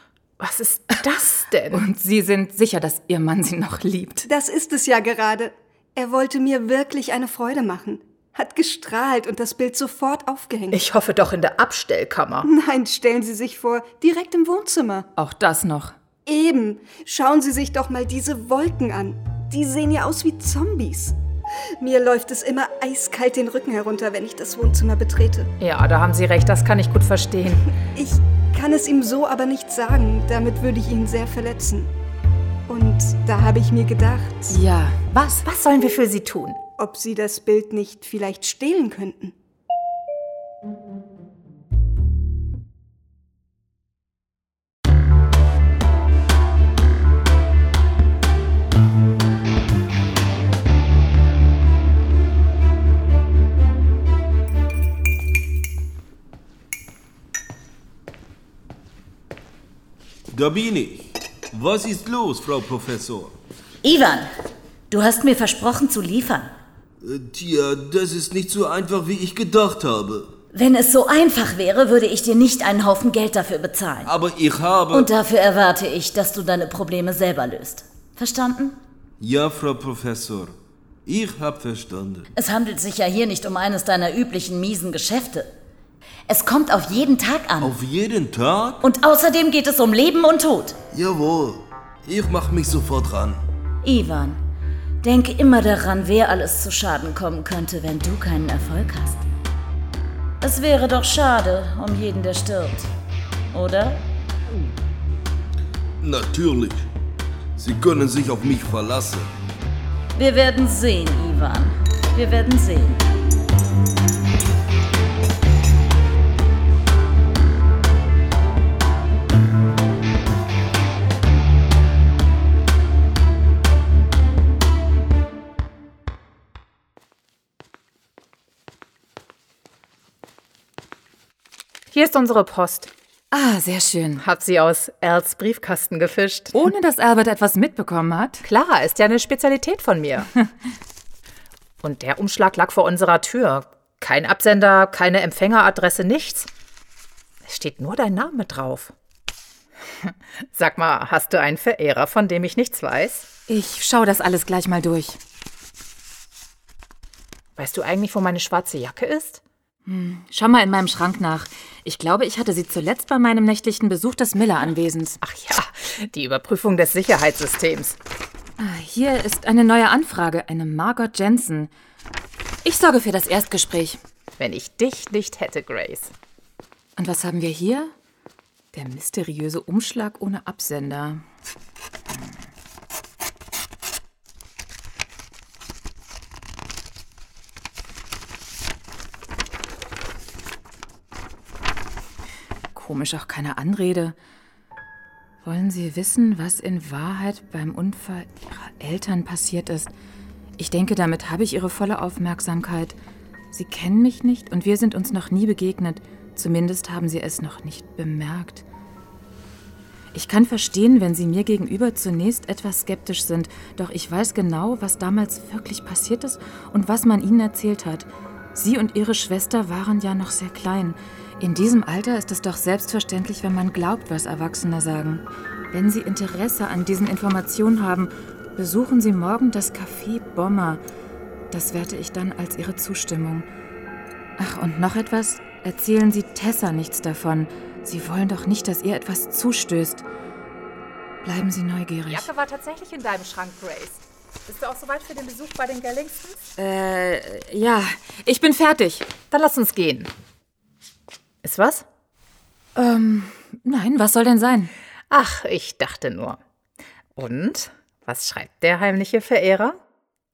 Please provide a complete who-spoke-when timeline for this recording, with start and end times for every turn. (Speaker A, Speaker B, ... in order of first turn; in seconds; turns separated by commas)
Speaker A: 0.4-1.8, Speaker B: 1.7-4.3, Speaker C: 4.2-10.8, Speaker A: 10.7-12.5, Speaker C: 12.4-15.1, Speaker B: 15.2-15.9, Speaker C: 16.2-21.1, Speaker C: 21.8-25.5, Speaker A: 25.6-27.7, Speaker C: 27.9-31.9, Speaker C: 32.7-34.6, Speaker B: 34.5-35.4, Speaker A: 35.4-36.6, Speaker C: 36.8-39.3, Speaker D: 60.3-63.4, Speaker E: 63.8-64.3, Speaker E: 64.9-66.5, Speaker D: 67.0-70.3, Speaker E: 70.5-74.1, Speaker D: 74.0-75.1, Speaker E: 74.9-78.8, Speaker D: 79.2-82.3, Speaker E: 82.3-85.5, Speaker E: 86.3-87.8, Speaker D: 87.6-88.8, Speaker E: 88.8-90.8, Speaker D: 90.9-93.4, Speaker E: 93.8-94.4, Speaker E: 95.0-99.2, Speaker E: 100.4-102.9, Speaker E: 103.5-104.0, Speaker D: 106.0-106.8, Speaker D: 107.6-109.3, Speaker E: 110.1-113.0, Speaker A: 131.9-132.9, Speaker B: 133.3-134.2, Speaker A: 134.2-136.6, Speaker B: 136.5-138.4, Speaker A: 138.4-140.3, Speaker A: 141.8-146.5, Speaker A: 147.4-148.9, Speaker A: 150.0-153.3, Speaker B: 153.5-155.2, Speaker A: 157.6-159.4, Speaker B: 159.8-165.2, Speaker A: 165.2-168.0, Speaker B: 168.6-171.7, Speaker B: 172.6-174.0, Speaker A: 174.4-176.1, Speaker B: 177.0-177.9, Speaker B: 178.7-181.2, Speaker B: 192.7-194.2, Speaker B: 195.4-199.9, Speaker B: 200.6-202.9, Speaker B: 203.5-208.6, Speaker B: 210.1-230.8, Speaker B: 231.5-233.4, Speaker B: 234.4-240.0, Speaker B: 241.2-242.3, Speaker A: 242.1-246.4, Speaker B: 246.6-249.1, Speaker A: 249.3-250.1, Speaker A: 251.4-251.8, Speaker B: 252.8-254.7, Speaker A: 255.1-256.4, Speaker A: 257.1-259.8